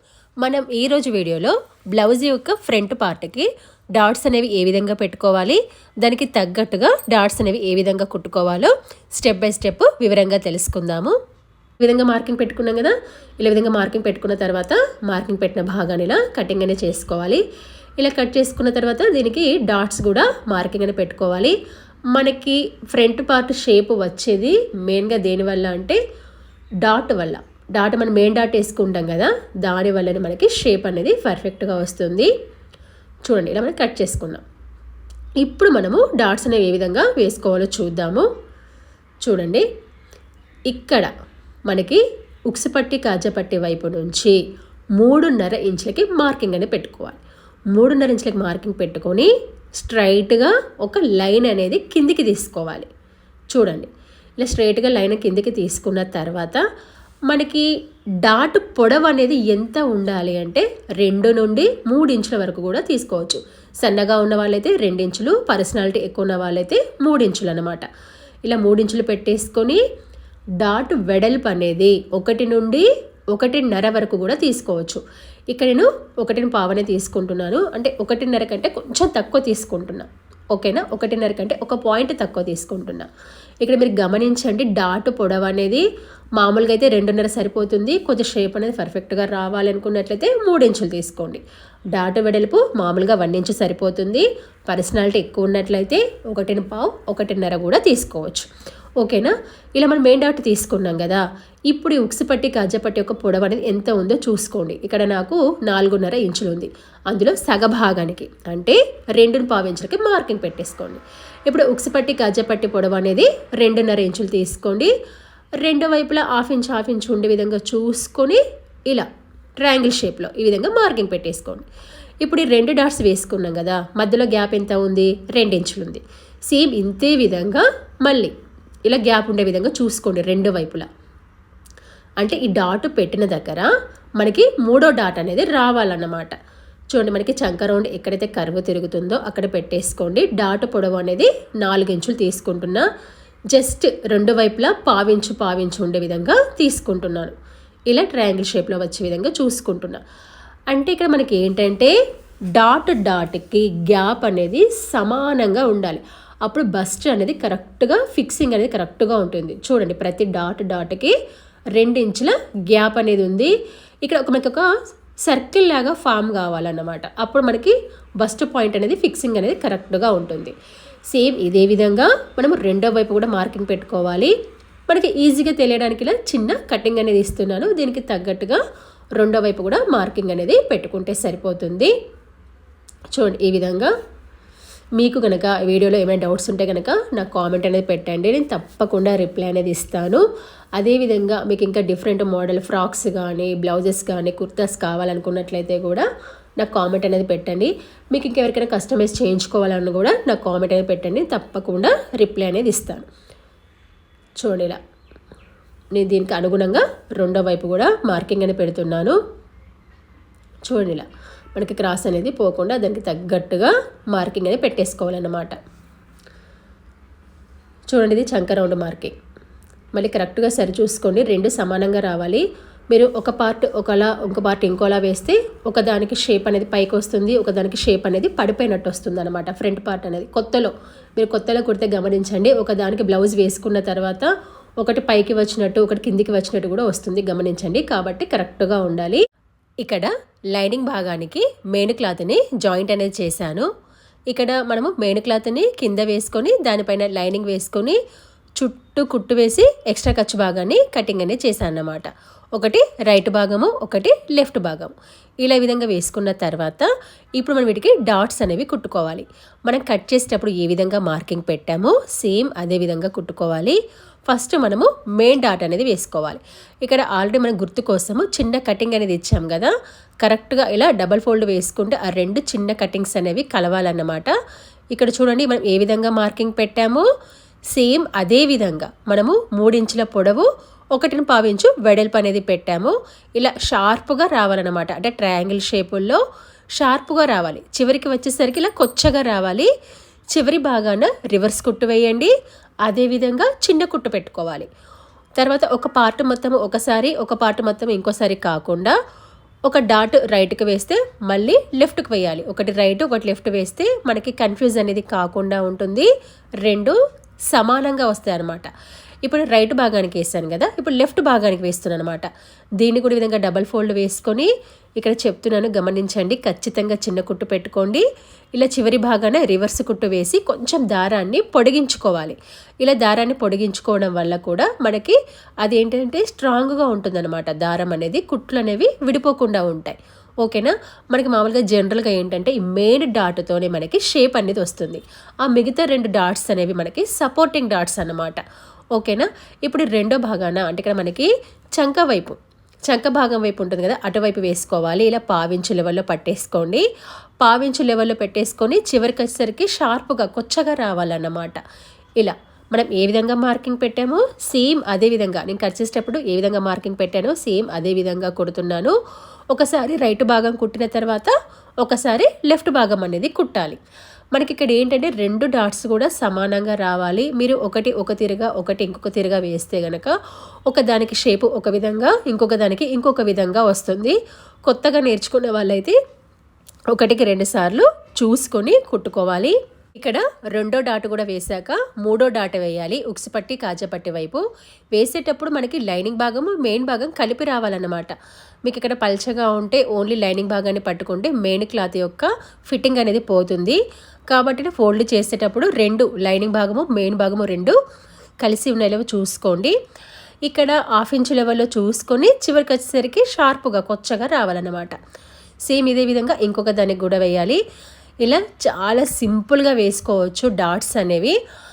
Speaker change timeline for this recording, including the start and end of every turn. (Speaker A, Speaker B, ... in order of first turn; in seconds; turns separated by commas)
Speaker A: 0.4-11.2, Speaker A: 11.8-17.4, Speaker A: 18.0-21.6, Speaker A: 22.1-26.0, Speaker A: 26.8-32.3, Speaker A: 33.2-34.4, Speaker A: 35.4-38.3, Speaker A: 39.2-39.6, Speaker A: 40.7-41.1, Speaker A: 41.7-44.4, Speaker A: 45.0-47.2, Speaker A: 47.7-52.9, Speaker A: 53.5-53.9, Speaker A: 54.4-56.6, Speaker A: 57.3-57.6, Speaker A: 58.2-67.8, Speaker A: 68.4-69.8, Speaker A: 70.6-83.1, Speaker A: 83.6-85.8, Speaker A: 86.4-91.4, Speaker A: 91.9-98.5, Speaker A: 99.0-114.9, Speaker A: 115.6-119.1, Speaker A: 119.6-121.7, Speaker A: 122.2-128.3, Speaker A: 128.8-130.8, Speaker A: 132.2-136.3, Speaker A: 136.9-142.8, Speaker A: 143.5-147.3, Speaker A: 147.9-150.0, Speaker A: 150.7-151.9, Speaker A: 152.5-161.2, Speaker A: 161.7-163.5, Speaker A: 164.0-164.7, Speaker A: 165.2-170.5, Speaker A: 171.1-174.3, Speaker A: 174.9-178.6, Speaker A: 179.2-181.9, Speaker A: 183.1-183.9, Speaker A: 185.0-190.2, Speaker A: 190.8-196.1, Speaker A: 196.6-203.1, Speaker A: 204.4-204.8, Speaker A: 205.9-209.2, Speaker A: 210.7-215.5, Speaker A: 217.9-219.1, Speaker A: 219.9-234.3, Speaker A: 234.8-239.2, Speaker A: 239.8-243.7, Speaker A: 244.3-248.0, Speaker A: 248.6-263.8, Speaker A: 264.3-274.3, Speaker A: 274.9-277.1, Speaker A: 277.7-286.2, Speaker A: 286.8-289.7, Speaker A: 290.3-292.3, Speaker A: 292.9-294.7, Speaker A: 295.4-298.9, Speaker A: 299.7-306.1, Speaker A: 306.6-306.9, Speaker A: 307.5-308.7, Speaker A: 309.2-312.3, Speaker A: 312.8-318.0, Speaker A: 318.6-338.4, Speaker A: 338.9-346.8, Speaker A: 347.4-351.6, Speaker A: 352.2-358.9, Speaker A: 359.5-363.8, Speaker A: 364.3-370.1, Speaker A: 370.7-374.1, Speaker A: 374.7-376.0, Speaker A: 376.9-384.4, Speaker A: 384.9-388.1, Speaker A: 388.6-393.8, Speaker A: 394.3-397.8, Speaker A: 398.4-399.7, Speaker A: 400.4-404.9, Speaker A: 405.6-407.6, Speaker A: 408.2-411.3